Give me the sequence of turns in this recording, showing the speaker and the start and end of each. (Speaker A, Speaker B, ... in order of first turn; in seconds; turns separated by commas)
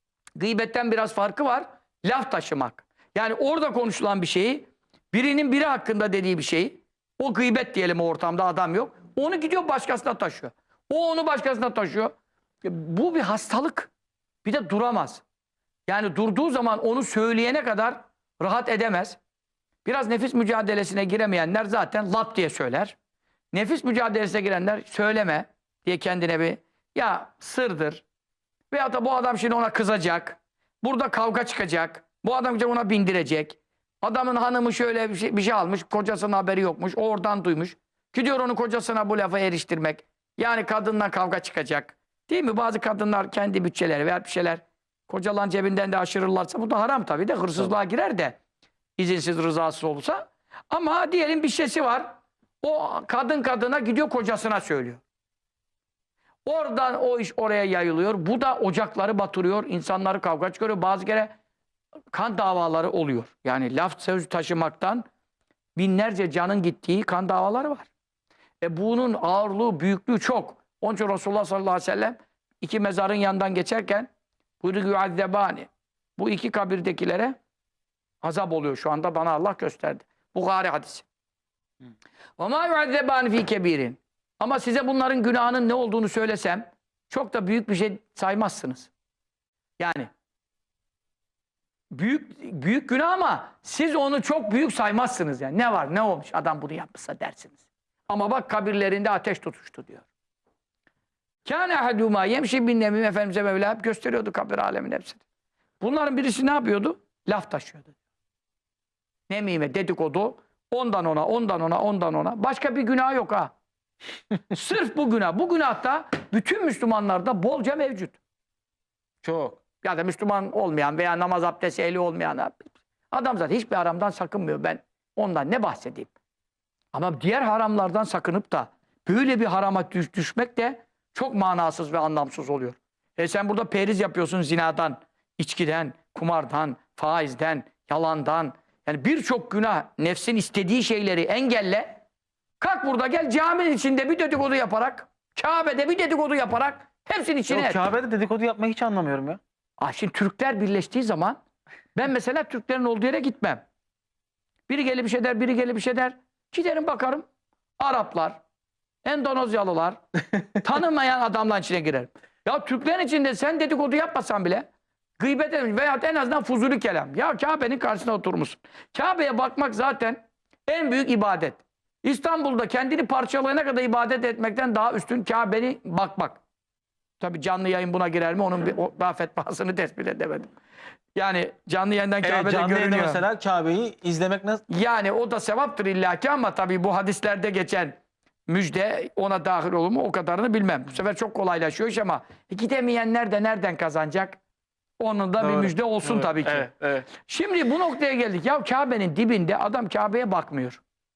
Speaker A: 0.4-13.9, Speaker A: 14.4-15.2, Speaker A: 15.9-19.2, Speaker A: 19.9-23.0, Speaker A: 23.5-28.0, Speaker A: 28.7-48.4, Speaker A: 49.0-55.0, Speaker A: 56.5-61.3, Speaker A: 62.1-65.1, Speaker A: 65.8-67.9, Speaker A: 68.6-74.1, Speaker A: 74.6-77.4, Speaker A: 78.2-81.1, Speaker A: 82.4-88.9, Speaker A: 89.8-90.1, Speaker A: 91.9-100.0, Speaker A: 101.5-105.2, Speaker A: 105.8-107.9, Speaker A: 109.3-113.5, Speaker A: 114.5-118.2, Speaker B: 119.2-119.6, Speaker A: 119.8-126.1, Speaker A: 126.9-142.0, Speaker A: 142.6-147.8, Speaker B: 147.5-149.4, Speaker A: 149.8-151.4, Speaker A: 151.9-153.6, Speaker A: 154.7-157.3, Speaker A: 157.8-158.4, Speaker A: 159.0-164.7, Speaker A: 165.2-176.4, Speaker A: 177.2-180.5, Speaker A: 181.2-183.2, Speaker B: 182.2-184.7, Speaker A: 184.7-194.4, Speaker A: 195.0-200.8, Speaker B: 195.4-197.1